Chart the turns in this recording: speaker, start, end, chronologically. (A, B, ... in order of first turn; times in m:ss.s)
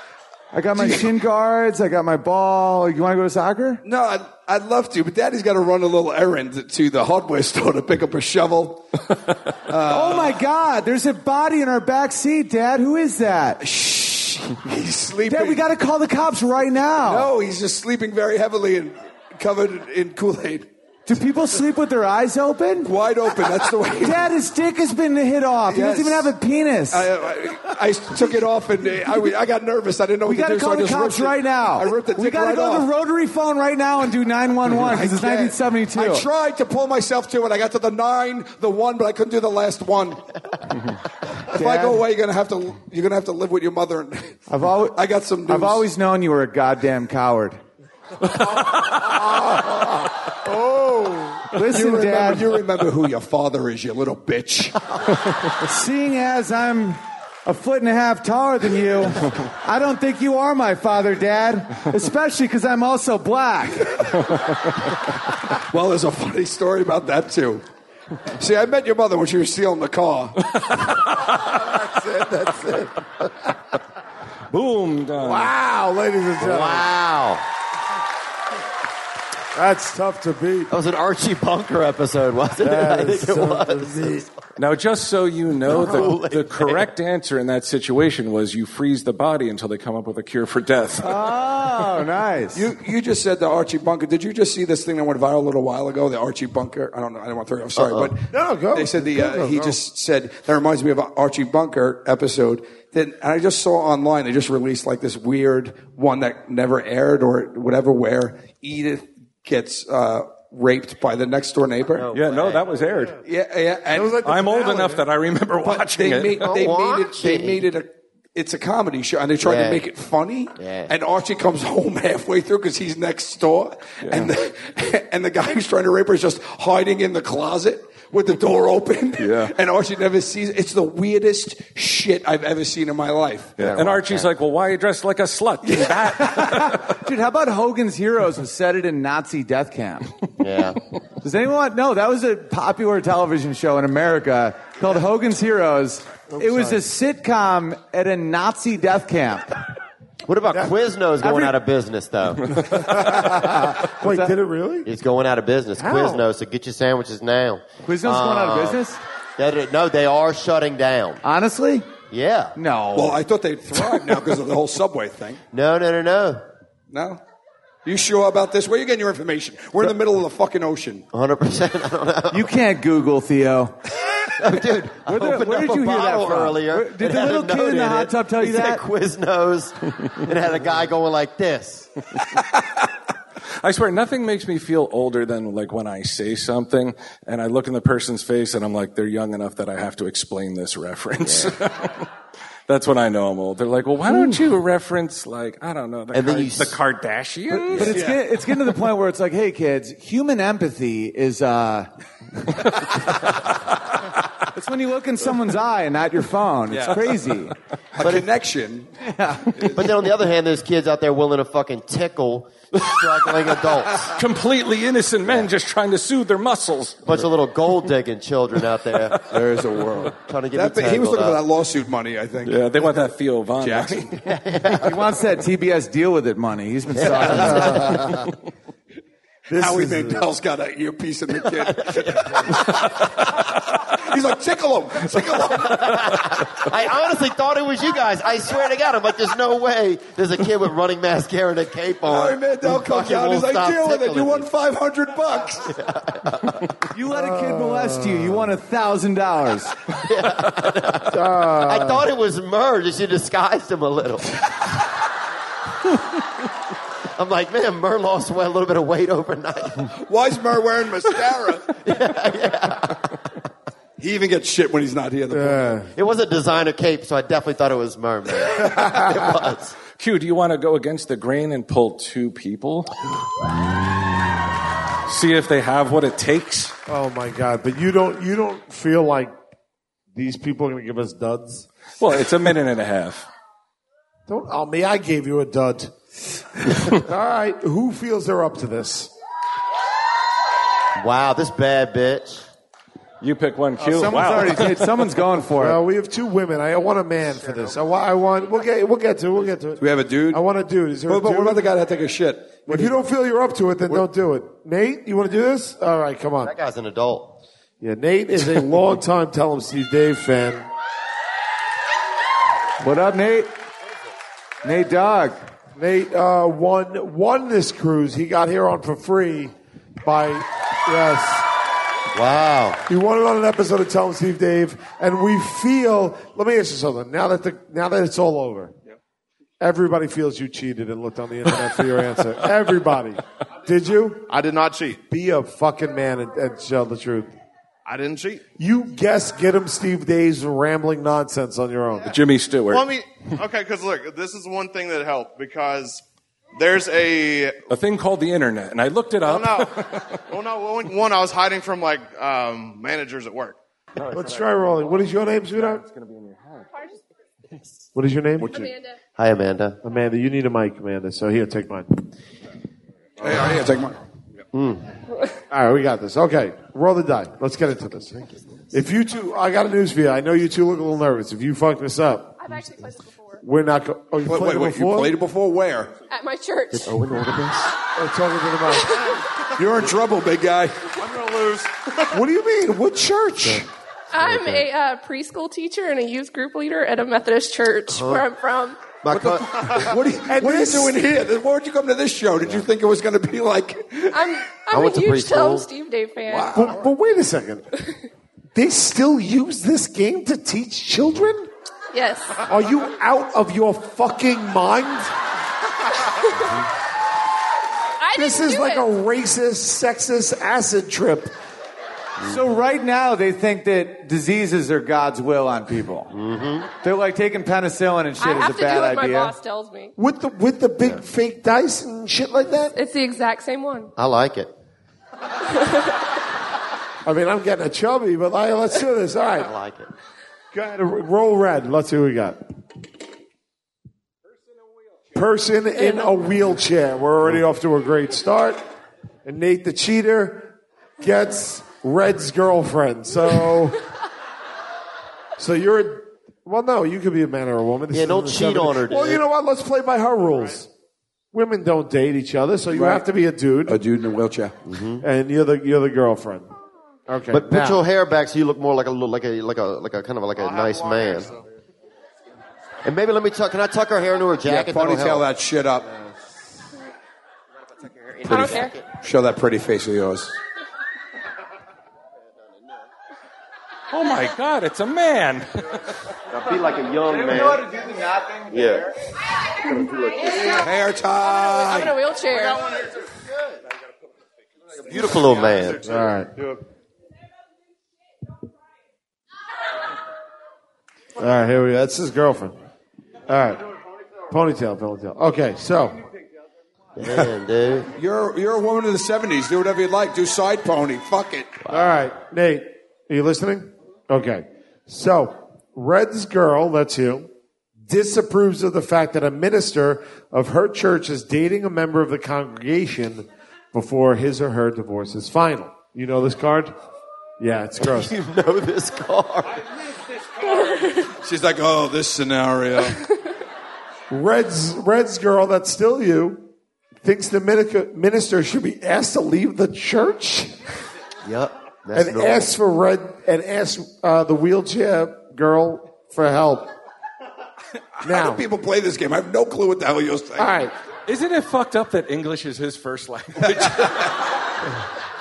0:00.5-0:03.8 A
0:03.8-0:08.8 B
0:09.7-0:10.4 B
0:09.9-0:13.6 A
0:13.6-0:15.6 B
0:15.3-0:17.3 A
0:17.0-0:20.7 B
0:21.0-0:22.9 A
0:22.8-0:24.3 B
0:24.0-0:27.1 A
0:25.7-0:26.3 B
0:26.9-0:32.9 B
0:30.2-0:36.2 A
0:34.7-0:40.2 B
0:41.5-0:44.4 B
0:41.5-0:42.0 A
0:44.5-0:47.6 A
0:44.9-0:45.8 B
0:49.2-0:51.5 C
0:51.5-0:52.5 A
0:51.7-0:54.8 B
0:55.6-1:04.0 A
1:05.6-1:07.6 B
1:08.4-1:10.4 B
1:11.4-1:13.5 C
1:14.5-1:15.5 D
1:15.2-1:16.9 C
1:16.4-1:17.4 E
1:19.5-1:20.7 C
1:20.7-1:24.3 E
1:22.6-1:24.2 C
1:24.6-1:31.2 D
1:25.6-1:26.9 E
1:31.0-1:32.6 A
1:32.5-1:52.1 B
1:37.8-1:38.1 E
1:38.3-1:39.8 C
1:51.9-1:52.6 E
1:52.1-1:53.2 D
1:53.2-1:54.2 B
1:53.9-1:55.0 C
1:54.2-1:56.6 D
1:55.6-2:13.8 B
1:56.4-1:57.6 E
1:59.4-1:59.8 E
2:00.6-2:00.9 E
2:09.2-2:09.5 D
2:13.6-2:16.9 D
2:13.7-2:14.3 E
2:16.2-2:20.1 A
2:20.4-2:20.8 E
2:21.2-2:29.5 A
2:26.3-2:26.8 C
2:30.2-2:32.9 E
2:31.2-2:31.6 A
2:32.6-2:34.9 C
2:34.8-2:38.8 E
2:35.8-2:36.2 C
2:37.8-2:39.0 A
2:39.4-2:41.2 E
2:41.2-2:41.8 A
2:42.1-2:42.6 E
2:42.6-2:43.2 A
2:42.9-2:45.4 B
2:45.5-2:46.4 E
2:46.9-2:47.2 B
2:47.8-2:51.0 B
2:51.1-2:52.5 E
2:52.3-2:53.8 A
2:54.4-3:02.0 E
2:55.0-2:58.8 A
3:03.6-3:12.1 D
3:11.2-3:11.5 E
3:12.7-3:18.0 D
3:16.1-3:16.8 E
3:17.5-3:21.9 A
3:17.8-3:18.2 B
3:24.5-3:27.5 A
3:27.9-3:28.9 B
3:28.0-3:28.3 E
3:29.0-3:29.7 A
3:29.5-3:29.8 B
3:29.7-3:34.2 E
3:34.1-3:37.3 D
3:37.0-3:39.2 E
3:39.3-3:42.7 B
3:40.3-3:41.4 E
3:42.4-3:44.2 D
3:43.6-3:44.2 B
3:44.2-3:45.0 E
3:44.8-3:48.1 A
3:47.0-3:48.3 E
3:47.6-3:48.0 C
3:49.5-3:50.2 C
3:49.5-3:56.1 B
3:51.9-3:52.6 E
3:55.5-4:04.5 E
4:02.0-4:05.7 B
4:05.8-4:06.7 E
4:06.9-4:09.8 A
4:07.1-4:08.5 C
4:10.0-4:14.5 E
4:11.1-4:12.1 C
4:17.2-4:19.9 E
4:19.9-4:21.7 B
4:21.8-4:23.3 E
4:24.0-4:25.7 B
4:25.3-4:25.9 C
4:25.9-4:29.8 E
4:30.0-4:32.9 D
4:35.0-4:36.7 D
4:36.9-4:39.3 C
4:40.1-4:41.7 C
4:42.0-4:43.3 D
4:44.3-4:45.9 C
4:46.8-4:49.1 C
4:51.0-4:52.4 E
4:53.2-4:54.9 D
4:53.8-4:55.8 A
4:55.6-5:01.7 C
4:59.8-5:00.4 B
5:01.1-5:02.9 B
5:02.7-5:06.5 C
5:06.4-5:07.4 E
5:07.8-5:10.7 C
5:12.8-5:13.5 A
5:14.6-5:15.4 A
5:15.8-5:21.5 C
5:22.1-5:22.8 E
5:22.9-5:28.7 C
5:29.6-5:34.3 C
5:34.3-5:35.0 F
5:35.1-5:37.3 C
5:37.8-5:38.4 F
5:38.6-5:42.1 C
5:42.1-5:42.9 D
5:42.7-5:46.0 F
5:46.5-5:47.6 F
5:47.7-5:50.2 D
5:49.2-5:53.6 F
5:54.0-5:54.4 D
5:54.1-5:55.8 C
5:55.5-5:56.7 D
5:57.9-5:58.7 C
5:58.5-5:59.0 G
5:59.2-5:59.8 E
5:59.8-6:02.1 C
6:03.2-6:04.0 B
6:04.5-6:04.8 E
6:05.5-6:08.2 C
6:08.7-6:12.6 C
6:12.4-6:13.4 G
6:13.4-6:15.2 C
6:14.2-6:15.9 B
6:16.1-6:17.0 G
6:16.7-6:17.7 E
6:18.0-6:19.2 C
6:19.5-6:20.9 B
6:21.0-6:21.8 F
6:22.1-6:23.7 C
6:24.1-6:28.9 G
6:24.2-6:24.7 E
6:27.9-6:28.3 E
6:29.0-6:30.0 E
6:29.1-6:34.3 B
6:30.2-6:31.0 C
6:34.1-6:36.6 G
6:34.7-6:35.7 E
6:36.3-6:36.7 B
6:36.5-6:37.7 C
6:38.5-6:41.5 C
6:41.9-6:42.4 G
6:42.4-6:45.1 C
6:48.0-6:48.8 G
6:48.1-6:51.3 C
6:52.2-6:56.1 A
6:56.1-6:56.7 E
6:56.8-6:59.3 A
6:58.2-6:59.9 G
7:00.0-7:02.7 C
7:02.7-7:03.9 G
7:04.0-7:04.5 E
7:07.0-7:09.5 C
7:09.4-7:09.9 E
7:10.5-7:12.4 C
7:15.1-7:18.6 C
7:19.2-7:23.8 C
7:25.4-7:30.7 C
7:27.9-7:29.2 E
7:31.3-7:33.8 C
7:32.7-7:33.0 B
7:33.7-7:34.5 B
7:34.6-7:35.0 E
7:35.0-7:36.5 C
7:37.1-7:37.8 C
7:37.3-7:41.3 E
7:40.4-7:41.4 F
7:42.8-7:45.3 E
7:44.4-7:45.8 B
7:47.8-7:48.8 E
7:48.3-7:48.8 G
7:49.0-7:50.3 B
7:53.9-7:55.8 D
7:56.3-7:57.7 E
7:57.1-7:58.6 A
7:58.5-7:58.9 E
7:59.6-8:00.6 E
8:00.5-8:02.0 B
8:01.2-8:02.7 G
8:04.8-8:05.8 E
8:05.8-8:06.3 C
8:11.2-8:12.6 C
8:13.3-8:13.6 C
8:14.3-8:16.0 C
8:17.0-8:17.9 E
8:17.9-8:21.6 B
8:21.6-8:21.9 E
8:21.7-8:27.3 C
8:27.8-8:36.7 C
8:37.4-8:38.1 C
8:37.8-8:39.6 E
8:40.6-8:41.0 G
8:41.1-8:43.0 B
8:44.1-8:46.5 C
8:47.0-8:50.6 C
8:51.2-8:52.5 E
8:51.9-8:56.7 C
8:58.0-9:00.5 B
8:58.0-8:58.4 C
9:00.4-9:00.7 C
9:01.1-9:04.2 D
9:03.4-9:04.0 B